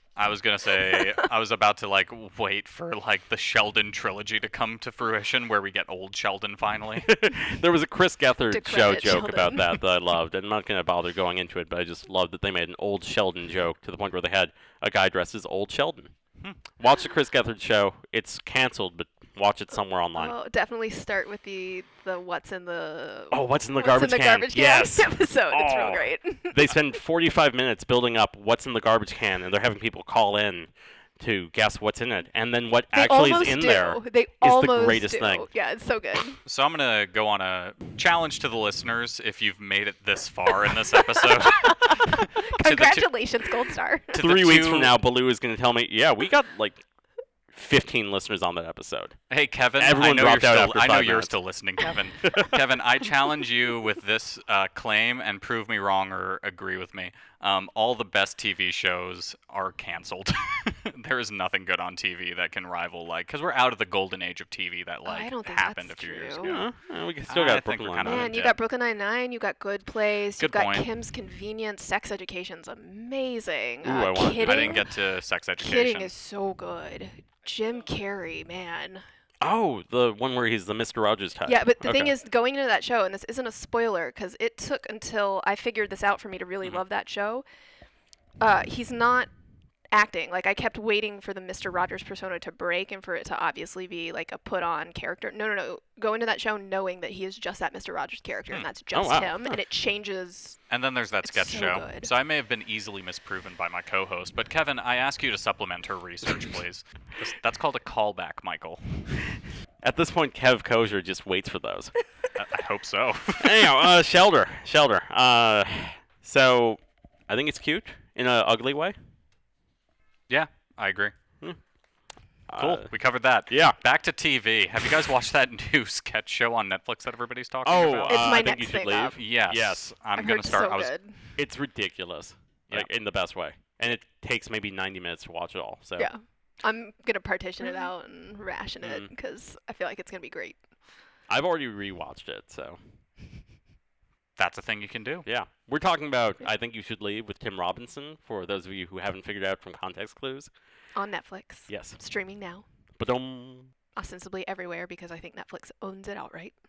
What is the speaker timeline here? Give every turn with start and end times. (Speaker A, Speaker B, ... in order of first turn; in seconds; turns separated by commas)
Speaker A: 0.1-7.1, Speaker B: 0.9-1.2, Speaker C: 7.0-16.1, Speaker B: 8.5-9.8, Speaker C: 16.8-20.4, Speaker B: 20.1-26.7, Speaker C: 23.3-35.5, Speaker B: 32.9-36.4, Speaker A: 36.5-43.1, Speaker B: 41.4-44.1, Speaker A: 44.1-45.0, Speaker C: 44.2-46.8, Speaker C: 47.5-49.1, Speaker A: 49.3-66.7, Speaker C: 49.8-51.3, Speaker C: 52.2-52.5, Speaker B: 65.0-66.6, Speaker C: 66.4-68.3, Speaker A: 67.3-68.5, Speaker B: 68.0-74.8, Speaker A: 70.4-70.9, Speaker C: 73.8-74.8, Speaker A: 74.4-76.1, Speaker B: 75.6-79.0, Speaker C: 79.4-82.1, Speaker B: 81.5-87.4, Speaker B: 88.4-89.3, Speaker B: 89.9-100.6, Speaker C: 98.9-99.6, Speaker A: 100.7-109.2, Speaker B: 101.2-102.1, Speaker C: 109.8-111.9, Speaker A: 112.3-113.8, Speaker C: 113.4-119.0, Speaker A: 120.3-121.1, Speaker C: 122.5-122.9, Speaker A: 122.5-128.4, Speaker C: 123.5-123.8, Speaker C: 127.6-129.9, Speaker B: 128.1-129.2, Speaker A: 129.1-130.9, Speaker B: 130.2-131.2, Speaker C: 131.3-136.1, Speaker B: 136.0-140.6, Speaker C: 138.8-139.1, Speaker C: 141.3-142.8, Speaker A: 144.4-145.2, Speaker C: 145.2-150.5, Speaker B: 150.9-152.6, Speaker C: 151.7-152.0, Speaker C: 153.0-153.7, Speaker B: 153.9-156.5